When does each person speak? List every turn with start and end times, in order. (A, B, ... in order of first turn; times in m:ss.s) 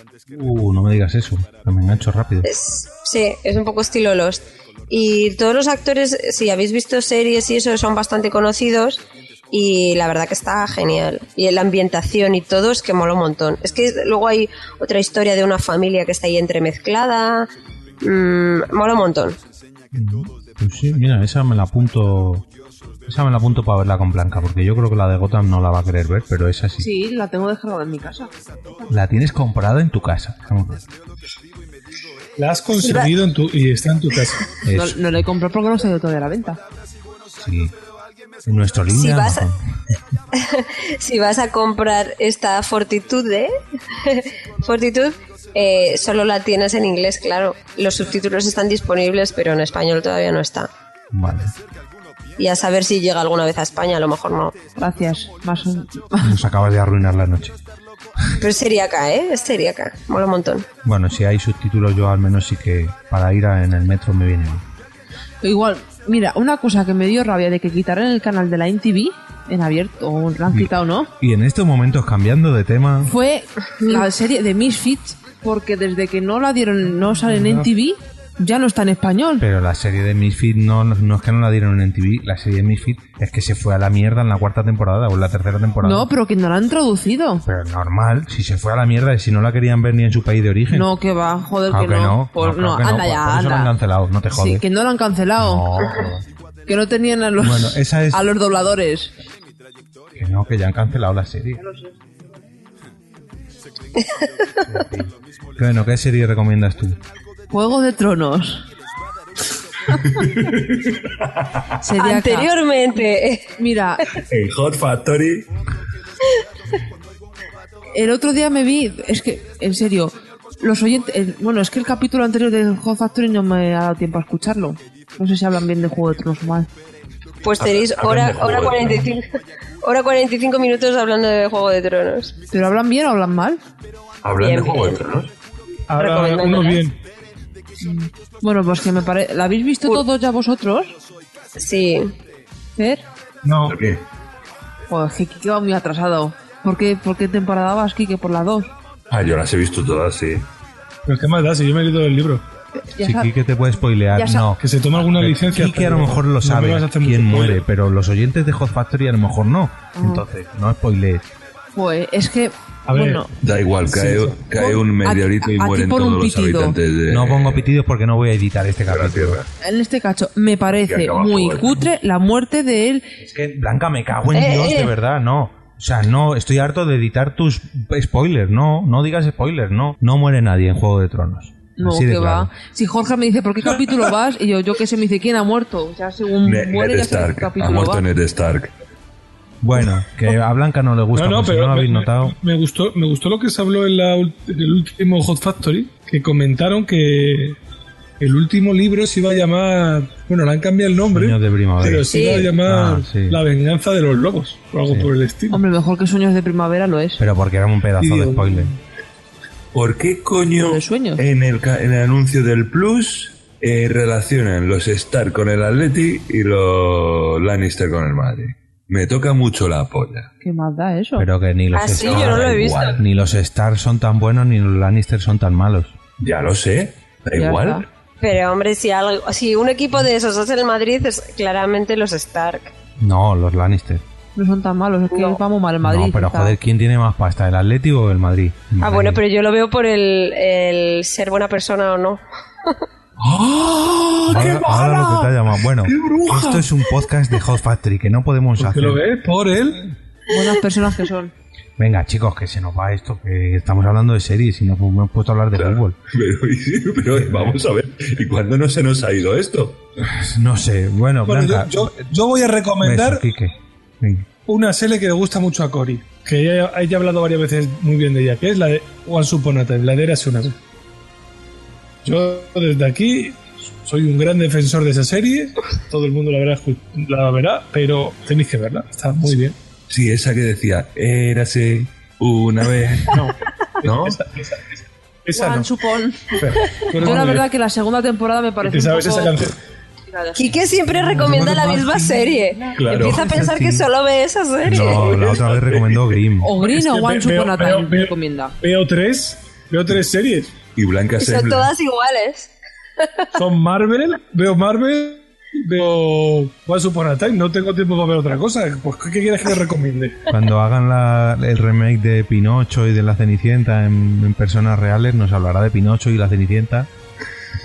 0:00.3-0:02.5 A
0:02.4-0:17.5 B
0:18.0-0:19.4 B
0:19.9-0:22.4 A
0:23.1-0:26.9 A
0:26.8-0:28.3 C
0:28.9-0:30.8 A
0:32.4-0:34.4 D
0:32.8-0:33.1 B
0:34.6-0:35.0 A
0:34.7-0:36.6 C
0:37.4-0:37.7 A
0:38.4-0:39.6 A
0:38.9-0:39.4 B
0:40.4-0:43.5 B
0:44.0-0:50.7 B
0:51.1-0:51.5 A
0:52.4-0:54.5 B
0:54.8-0:56.3 C
0:56.2-0:57.6 A
0:58.4-1:00.6 B
1:00.8-1:04.6 A
1:05.4-1:11.1 C
1:10.5-1:13.1 A
1:13.0-1:19.4 C
1:13.8-1:14.1 B
1:17.3-1:17.6 D
1:19.4-1:26.1 A
1:25.8-1:27.4 C
1:27.4-1:30.9 A
1:30.7-1:33.7 C
1:31.7-1:34.6 A
1:34.3-1:35.6 C
1:35.4-1:36.2 A
1:36.6-1:39.1 C
1:37.4-1:38.3 A
1:40.2-1:41.6 A
1:41.6-1:41.9 C
1:44.6-1:47.0 A
1:47.5-1:48.6 C
1:50.1-1:50.9 E
1:51.8-1:52.5 C
1:52.0-1:53.5 B
1:53.6-1:54.0 C
1:54.3-1:55.4 E
1:57.9-2:06.7 C
2:07.4-2:09.2 B
2:07.6-2:09.1 E
2:09.8-2:12.3 B
2:12.5-2:13.6 C
2:14.2-2:15.3 E
2:14.4-2:15.0 B
2:15.9-2:17.0 D
2:16.0-2:16.8 B
2:17.8-2:20.9 C
2:21.6-2:22.1 B
2:22.8-2:23.0 C
2:23.4-2:23.8 D
2:23.6-2:24.0 E
2:24.9-2:28.7 C
2:29.1-2:30.5 E
2:31.0-2:32.4 D
2:32.8-2:33.3 C
2:33.0-2:41.2 A
2:34.1-2:34.5 C
2:34.6-2:37.6 D
2:40.0-2:40.2 C
2:41.7-2:43.3 C
2:42.9-2:43.2 D
2:43.4-2:47.7 E
2:43.9-2:44.4 D
2:44.5-2:46.7 C
2:47.1-2:49.4 A
2:48.9-2:49.5 E
2:49.6-2:53.0 C
2:50.7-2:51.9 E
2:53.2-3:02.5 A
2:54.3-2:54.9 B
3:01.8-3:08.0 C
3:06.4-3:08.7 E
3:09.6-3:12.3 A
3:11.1-3:17.6 D
3:18.2-3:25.6 D
3:21.1-3:23.4 A
3:22.1-3:22.5 B
3:25.5-3:27.2 C
3:27.2-3:28.7 A
3:28.0-3:28.8 D
3:29.7-3:40.3 E
3:30.6-3:31.2 C
3:40.4-3:41.3 C
3:41.2-3:46.0 A
3:41.7-3:43.0 B
3:41.9-3:43.0 E
3:46.2-3:47.8 E
3:47.3-3:47.8 C
3:48.2-3:52.7 B
3:53.0-3:54.0 A
3:54.4-3:56.5 C
3:55.1-3:55.4 B
3:55.8-3:59.2 A
3:58.8-4:02.8 B
4:03.2-4:06.6 E
4:04.3-4:09.0 A
4:08.6-4:09.8 D
4:10.3-4:11.3 C
4:11.8-4:15.9 A
4:15.5-4:19.8 E
4:17.1-4:17.6 A
4:20.0-4:22.0 A
4:21.2-4:23.2 D
4:22.8-4:24.2 A
4:24.4-4:30.6 D
4:32.0-4:39.6 D
4:39.9-4:43.3 E
4:43.8-4:44.2 E
4:43.8-4:44.6 D
4:45.2-4:45.7 D
4:45.3-4:46.4 C
4:46.3-4:47.5 D
4:47.0-4:49.4 C
4:48.6-4:49.5 D
4:50.1-4:50.4 C
4:50.3-4:55.2 B
4:51.1-4:52.0 D
4:51.2-4:51.9 A
4:52.8-4:53.3 E
4:52.9-4:53.8 A
4:54.6-4:56.5 A
4:54.8-4:56.2 E
4:56.4-4:58.5 C
4:56.6-5:00.5 D
5:00.8-5:01.7 E
5:01.2-5:03.3 B
5:03.3-5:10.2 D
5:10.3-5:16.9 A